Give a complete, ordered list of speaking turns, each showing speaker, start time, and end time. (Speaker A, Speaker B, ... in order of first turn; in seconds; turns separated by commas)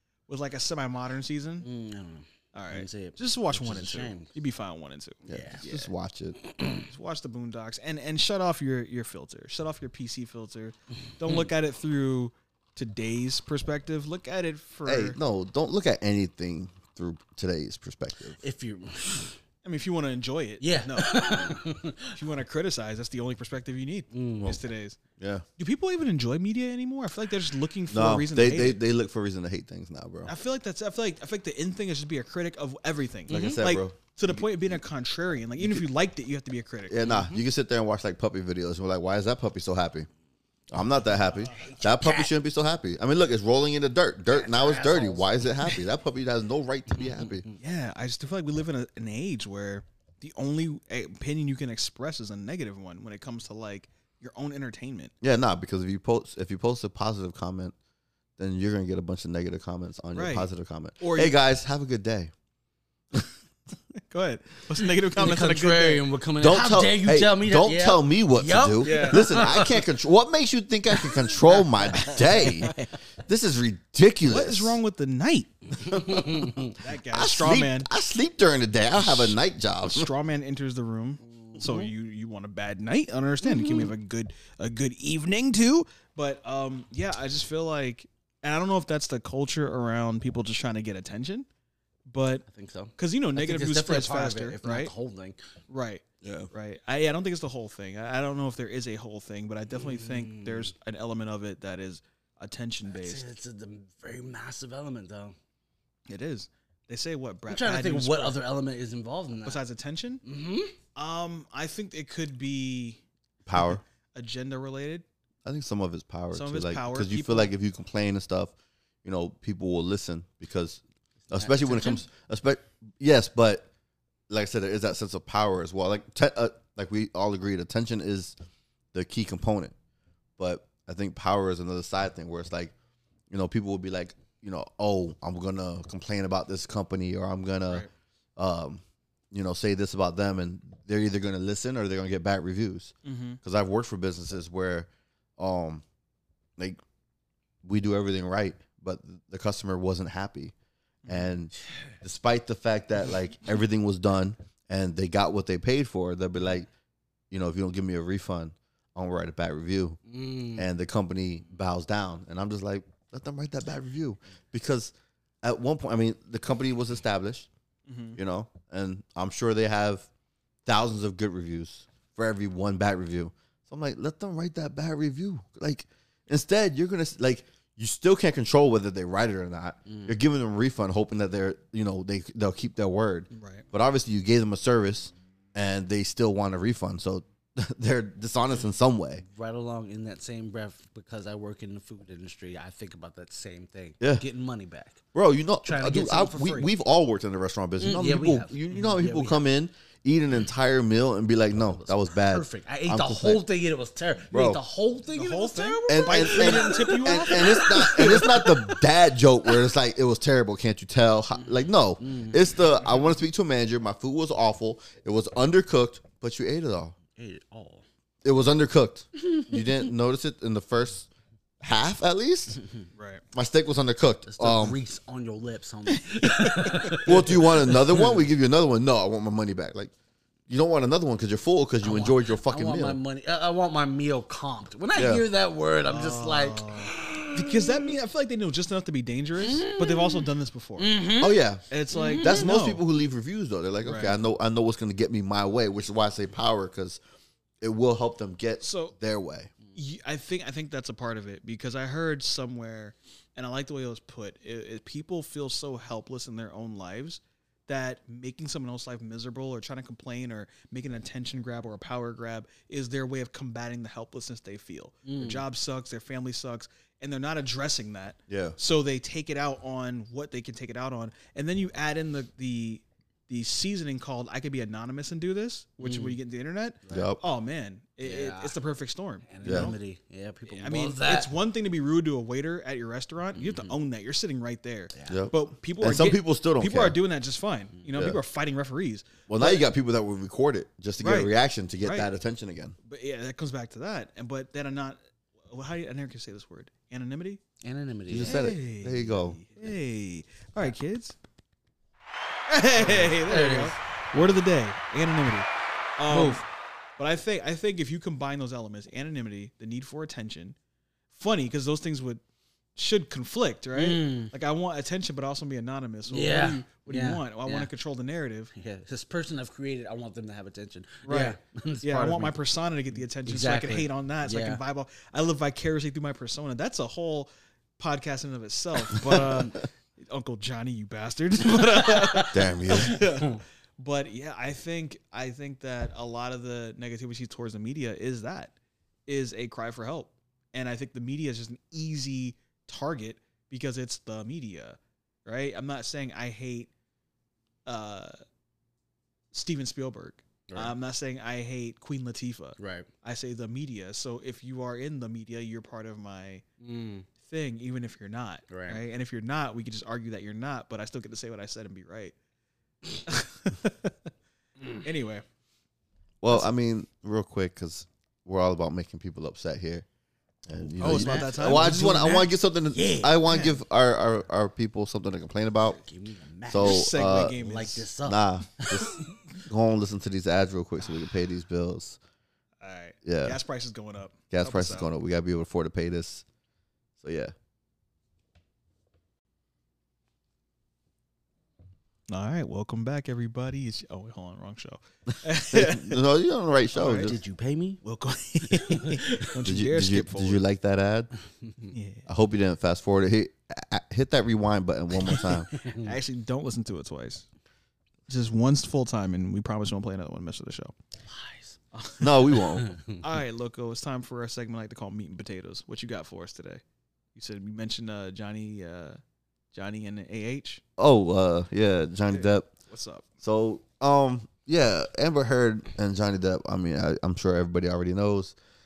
Speaker A: 0.3-1.7, Speaker B: 1.6-4.3, Speaker A: 2.5-5.9, Speaker C: 5.2-6.4, Speaker B: 5.3-5.6, Speaker B: 6.5-6.8, Speaker A: 6.8-15.2, Speaker C: 14.8-18.4, Speaker B: 18.4-19.4, Speaker A: 19.6-25.0, Speaker B: 20.6-22.1, Speaker B: 24.1-24.6, Speaker C: 25.2-25.4, Speaker A: 25.6-28.8, Speaker C: 27.9-30.3, Speaker A: 30.2-37.0, Speaker C: 33.3-34.8, Speaker B: 33.3-33.6, Speaker C: 35.6-35.9, Speaker C: 36.9-40.1, Speaker B: 37.0-37.4, Speaker C: 40.7-47.4, Speaker B: 41.5-42.3, Speaker B: 44.3-45.5, Speaker B: 47.0-47.5, Speaker A: 47.6-55.1, Speaker C: 55.2-57.7, Speaker C: 58.4-62.3, Speaker A: 60.1-61.3, Speaker A: 64.1-66.0, Speaker B: 65.2-69.8, Speaker C: 66.4-72.7, Speaker A: 68.8-69.5, Speaker B: 71.9-72.8, Speaker C: 73.2-74.8, Speaker A: 74.3-77.9, Speaker B: 75.8-76.7, Speaker C: 77.1-80.1, Speaker A: 79.0-91.5, Speaker B: 81.2-81.9, Speaker B: 83.4-83.9, Speaker A: 92.1-92.4, Speaker B: 92.5-95.4, Speaker A: 93.0-94.9, Speaker A: 95.7-103.2, Speaker C: 96.2-96.5, Speaker B: 99.7-100.7, Speaker B: 102.9-105.3, Speaker A: 106.1-108.4, Speaker B: 107.5-109.6, Speaker A: 109.4-110.2, Speaker B: 110.2-110.7, Speaker A: 110.9-113.0, Speaker C: 113.5-113.8, Speaker A: 113.5-115.0, Speaker C: 115.4-123.7, Speaker A: 116.3-117.5, Speaker B: 121.3-122.0, Speaker C: 124.3-128.4, Speaker C: 128.9-129.7, Speaker C: 130.4-132.7, Speaker C: 133.3-145.8, Speaker A: 143.0-143.4, Speaker C: 147.6-150.5, Speaker A: 151.0-151.3, Speaker C: 151.1-156.7, Speaker C: 157.3-160.0, Speaker B: 160.1-160.7, Speaker C: 160.6-167.5, Speaker A: 167.9-168.2, Speaker C: 168.1-170.1, Speaker C: 170.7-189.2, Speaker B: 179.8-180.2, Speaker A: 183.3-183.6, Speaker B: 189.2-195.0, Speaker C: 195.1-203.4, Speaker B: 195.6-196.7, Speaker B: 197.8-199.4, Speaker B: 201.5-208.8, Speaker C: 204.3-204.6, Speaker A: 205.1-208.2, Speaker C: 205.9-216.9, Speaker B: 211.3-212.5, Speaker B: 217.2-217.8, Speaker C: 218.2-221.1, Speaker B: 219.3-219.6, Speaker C: 221.6-222.6, Speaker A: 222.9-223.2, Speaker C: 223.3-224.8, Speaker B: 224.2-228.1, Speaker A: 226.2-227.0, Speaker C: 227.0-229.9, Speaker C: 230.5-233.0, Speaker B: 231.8-237.8, Speaker C: 234.9-235.2, Speaker A: 235.9-241.0, Speaker B: 239.4-240.3, Speaker B: 240.8-241.4, Speaker C: 241.2-241.6, Speaker A: 241.7-242.8, Speaker B: 241.9-242.5, Speaker C: 242.2-247.0, Speaker A: 243.8-244.2, Speaker C: 247.6-249.5, Speaker A: 248.6-248.9, Speaker A: 249.7-279.7, Speaker B: 265.1-265.4, Speaker C: 268.3-268.6, Speaker B: 275.8-276.2, Speaker C: 276.9-277.2, Speaker B: 278.0-278.5, Speaker B: 279.3-281.3, Speaker C: 279.4-279.7, Speaker A: 280.5-289.6, Speaker B: 283.3-283.7, Speaker B: 284.9-285.2, Speaker C: 285.1-287.0, Speaker C: 287.9-288.2, Speaker C: 289.3-292.7, Speaker A: 291.0-292.1, Speaker A: 292.9-297.4, Speaker B: 297.6-298.4, Speaker C: 298.1-299.4, Speaker A: 298.2-301.1, Speaker A: 302.5-306.4, Speaker B: 302.8-303.8, Speaker B: 306.1-306.4, Speaker A: 307.0-310.6, Speaker A: 311.1-312.2, Speaker A: 312.8-318.5, Speaker B: 313.7-314.3, Speaker B: 316.1-317.7, Speaker B: 318.5-322.4, Speaker A: 321.1-338.5, Speaker B: 323.2-324.6, Speaker C: 329.0-329.4, Speaker B: 332.0-332.3, Speaker C: 332.3-333.0, Speaker B: 332.9-333.4, Speaker A: 339.1-346.7, Speaker A: 347.6-348.2, Speaker A: 349.3-356.4, Speaker B: 350.5-350.7, Speaker B: 352.6-352.9, Speaker B: 356.6-357.1, Speaker A: 357.2-362.1, Speaker B: 358.5-358.8, Speaker A: 363.1-363.9, Speaker A: 364.6-365.2, Speaker C: 366.2-369.8, Speaker C: 370.5-375.8, Speaker B: 370.6-373.2, Speaker A: 370.8-372.2, Speaker A: 373.2-373.6, Speaker B: 375.6-379.1, Speaker C: 376.5-377.4, Speaker A: 376.6-377.9, Speaker C: 378.1-382.0, Speaker A: 382.6-384.9, Speaker C: 383.0-383.4, Speaker C: 384.3-386.2, Speaker C: 387.0-387.3, Speaker A: 392.1-396.0, Speaker C: 395.5-397.2, Speaker A: 396.7-397.1, Speaker B: 397.0-397.8, Speaker A: 397.8-400.4, Speaker B: 398.5-399.3, Speaker C: 399.4-401.1, Speaker B: 401.4-401.7, Speaker A: 401.7-402.0, Speaker C: 402.1-405.5, Speaker B: 405.5-405.9, Speaker A: 405.8-407.2, Speaker A: 408.1-410.7, Speaker B: 411.1-411.6, Speaker A: 411.7-412.4, Speaker C: 412.0-412.7, Speaker B: 412.6-413.0, Speaker A: 413.0-416.6, Speaker A: 417.1-419.0, Speaker A: 419.5-420.6, Speaker C: 420.8-422.5, Speaker A: 422.1-423.0, Speaker C: 423.2-428.4